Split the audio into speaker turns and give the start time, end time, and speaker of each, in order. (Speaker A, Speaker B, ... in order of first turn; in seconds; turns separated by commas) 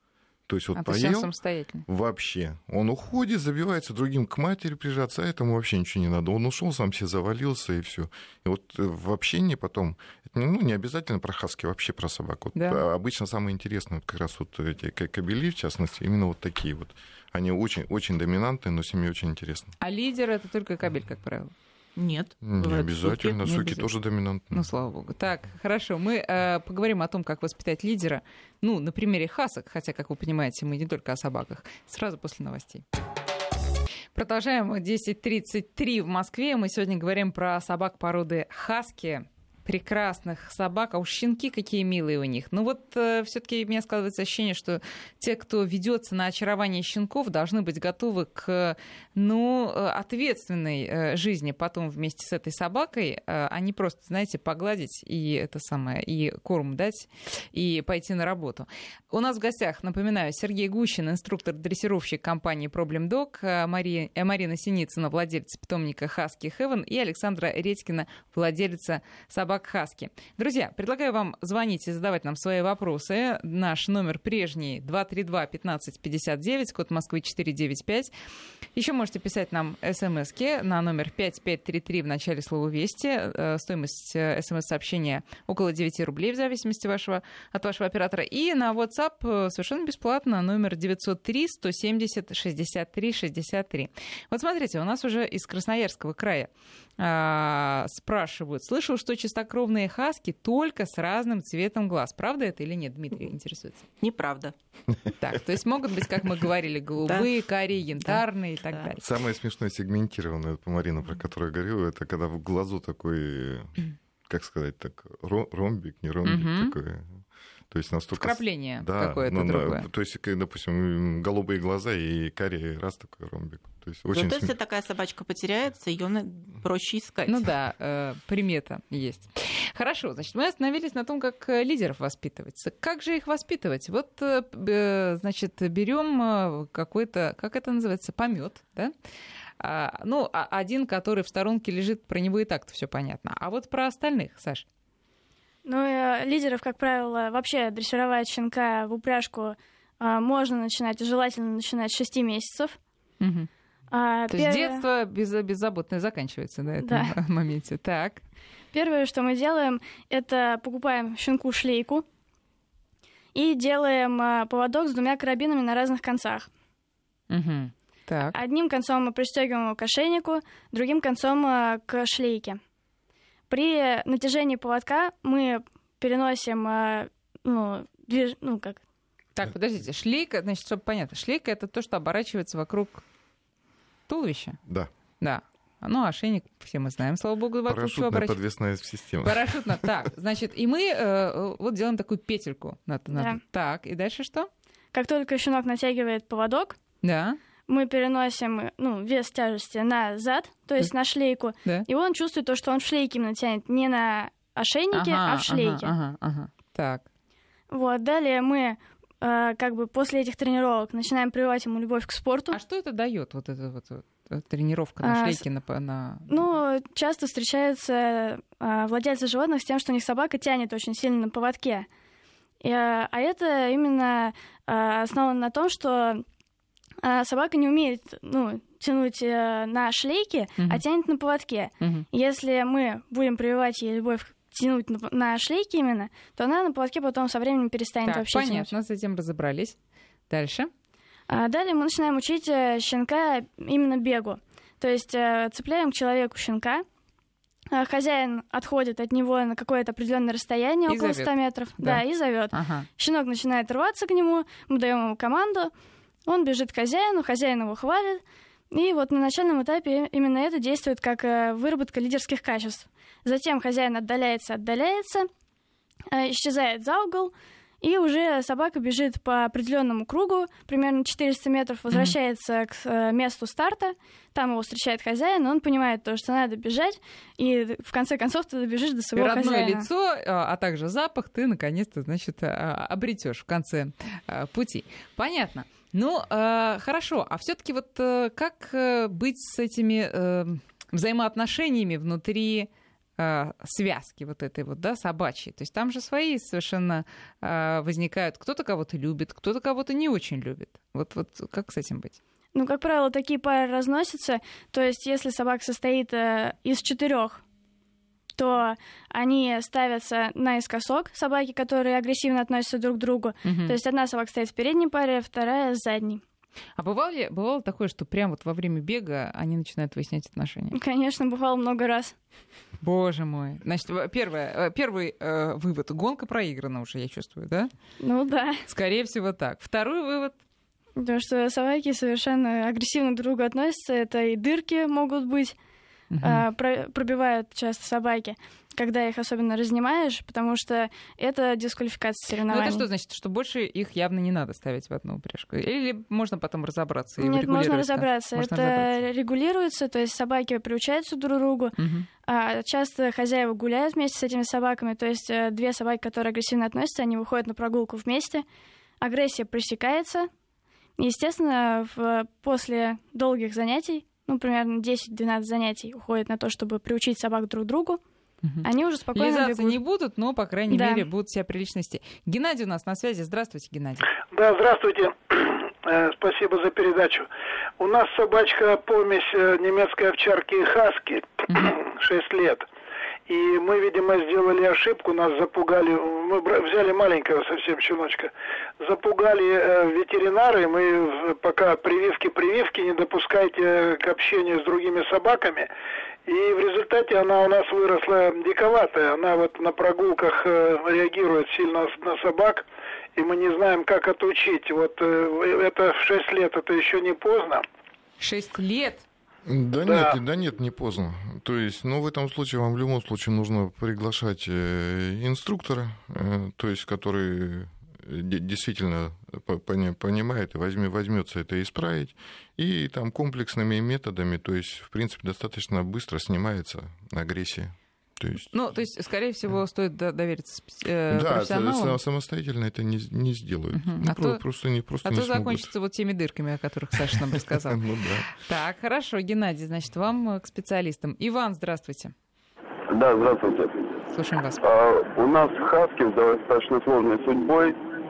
Speaker A: 0.5-1.3, Speaker B: 0.8-1.9, Speaker A: 1.9-19.8, Speaker B: 12.6-12.8, Speaker B: 19.8-21.5, Speaker C: 22.0-23.7, Speaker A: 22.4-24.7, Speaker B: 24.5-32.8, Speaker B: 34.1-78.1, Speaker B: 78.8-103.9, Speaker C: 104.0-104.5, Speaker B: 105.2-109.0, Speaker C: 107.0-107.3, Speaker A: 109.0-113.8, Speaker A: 114.3-124.5, Speaker B: 116.2-116.7, Speaker B: 118.2-119.9, Speaker C: 124.1-127.5, Speaker B: 127.3-138.9, Speaker B: 139.6-144.7, Speaker D: 145.7-152.8, Speaker B: 153.2-153.5, Speaker D: 153.9-154.8, Speaker B: 154.3-158.2, Speaker D: 156.8-157.1, Speaker D: 158.7-162.1, Speaker D: 163.3-166.5, Speaker B: 167.3-168.4, Speaker D: 168.3-172.6, Speaker D: 173.5-178.8, Speaker B: 179.4-183.0, Speaker B: 184.1-184.6, Speaker B: 185.2-188.4, Speaker A: 187.7-189.9, Speaker B: 189.2-194.5, Speaker D: 193.1-193.4, Speaker D: 194.9-196.8, Speaker B: 197.0-197.4, Speaker D: 197.7-205.9, Speaker B: 204.9-207.1, Speaker D: 207.7-212.6, Speaker B: 212.5-216.5, Speaker D: 215.0-215.4, Speaker D: 216.3-221.9, Speaker D: 222.6-226.2, Speaker D: 227.0-238.7, Speaker B: 231.8-232.1, Speaker B: 238.1-239.8, Speaker B: 240.3-240.7, Speaker D: 241.3-246.8, Speaker D: 247.7-255.7, Speaker B: 250.9-252.9, Speaker D: 256.3-265.3, Speaker D: 266.1-279.9, Speaker B: 271.9-272.1, Speaker B: 279.1-302.2, Speaker D: 302.6-307.4, Speaker D: 308.4-316.2, Speaker B: 313.4-313.8, Speaker B: 316.8-320.8, Speaker D: 320.7-322.1, Speaker B: 322.8-327.7, Speaker D: 328.0-328.6, Speaker B: 328.7-330.4, Speaker D: 331.0-335.6, Speaker B: 336.1-336.4, Speaker D: 336.2-342.9, Speaker B: 342.5-348.9, Speaker D: 347.2-351.8, Speaker B: 351.8-352.1, Speaker D: 352.3-358.4, Speaker D: 359.0-360.3, Speaker D: 361.0-368.0, Speaker B: 368.4-374.1, Speaker D: 368.6-369.8, Speaker D: 370.7-371.0, Speaker E: 374.3-377.3, Speaker E: 377.8-382.7, Speaker B: 381.5-381.7, Speaker E: 383.3-395.7, Speaker E: 396.3-407.6, Speaker B: 408.2-409.1, Speaker A: 409.4-428.5, Speaker E: 409.9-410.2, Speaker B: 428.5-432.0, Speaker A: 431.1-435.7, Speaker B: 433.8-434.4, Speaker B: 435.0-442.1, Speaker A: 437.5-438.3, Speaker F: 442.9-443.7, Speaker B: 444.1-444.6, Speaker F: 444.6-447.8